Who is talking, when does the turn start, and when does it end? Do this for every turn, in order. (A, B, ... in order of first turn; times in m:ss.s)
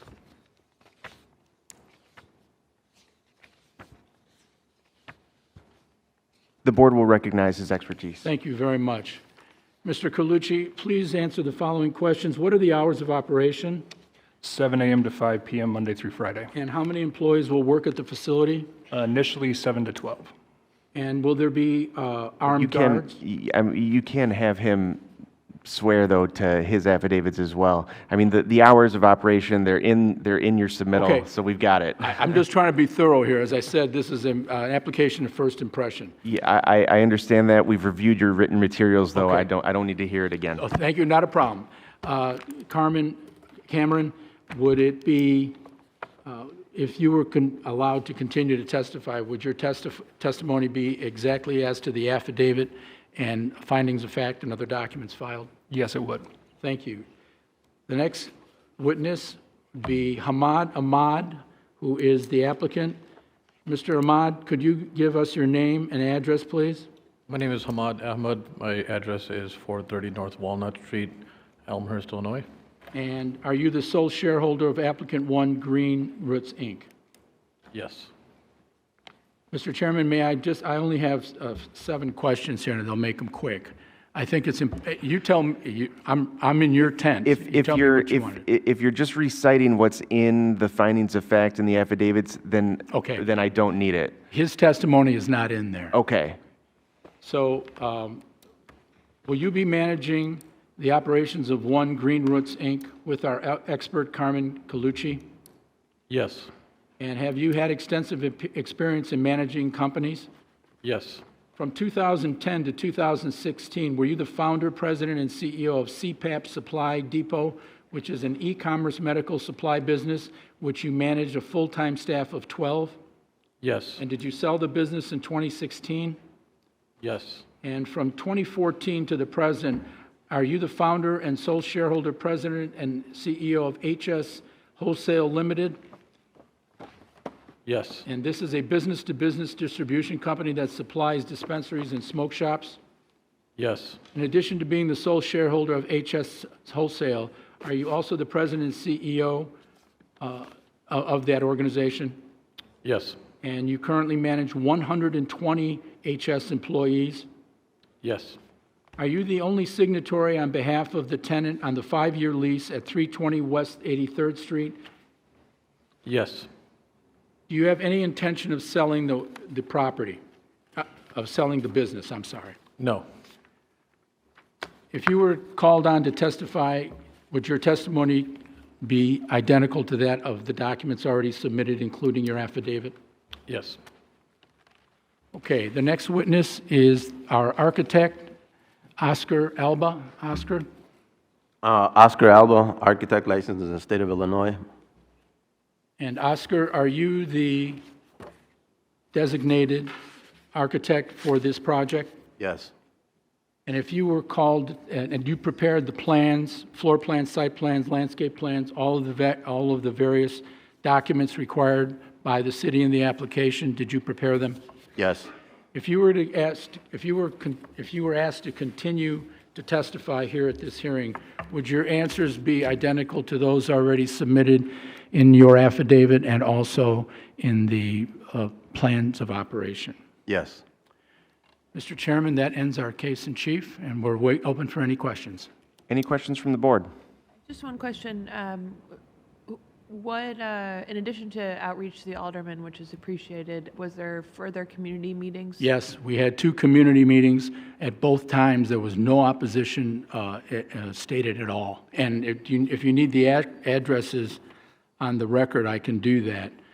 0:06.6-0:08.3 A
0:08.2-0:09.2 B
0:09.8-0:13.8 B
0:14.4-0:16.5 C
0:16.5-0:18.7 B
0:18.9-0:20.3 C
0:20.9-0:23.1 B
0:22.5-0:25.0 A
0:25.6-0:32.2 A
0:31.0-0:31.3 B
0:32.0-0:36.1 B
0:36.2-0:40.6 A
0:39.2-0:39.5 B
0:40.6-0:45.6 B
0:46.2-0:55.5 B
0:55.7-0:56.2 C
0:56.6-0:57.0 B
0:57.9-1:03.0 B
1:03.6-1:06.9 B
1:07.3-1:12.5 D
1:12.9-1:16.9 B
1:17.7-1:18.1 D
1:19.5-1:28.4 B
1:27.2-1:34.2 A
1:32.9-1:33.2 B
1:34.3-1:36.0 B
1:35.9-1:36.4 A
1:37.2-1:38.2 B
1:39.2-1:45.2 B
1:46.1-1:46.5 D
1:47.0-1:50.3 B
1:50.8-1:51.2 D
1:51.6-2:03.0 B
2:03.6-2:04.0 D
2:04.0-2:06.2 B
2:07.0-2:07.4 D
2:07.6-2:15.8 B
2:17.6-2:18.0 D
2:18.0-2:22.8 B
2:23.6-2:24.0 D
2:24.1-2:29.5 B
2:30.2-2:32.2 B
2:32.8-2:33.2 D
2:33.4-2:37.3 B
2:38.0-2:38.4 D
2:39.0-2:44.8 B
2:46.0-2:46.5 D
2:47.5-2:50.2 B
2:50.8-2:52.6 B
2:52.8-2:53.0 D
2:54.9-3:03.0 B
3:03.5-3:03.8 D
3:05.3-3:08.3 B
3:09.0-3:10.6 B
3:11.6-3:14.6 E
3:16.0-3:17.8 B
3:19.1-3:19.9 B
3:20.5-3:22.2 B
3:22.4-3:22.7 E
3:23.6-3:34.6 B
3:35.0-3:35.3 E
3:35.7-3:50.0 B
3:50.3-3:50.6 E
3:51.7-3:55.5 B
3:55.9-3:56.9 A
3:57.5-3:58.8 F
3:59.5-4:05.6 F
4:05.6-4:14.4 B
4:15.0-4:16.5 B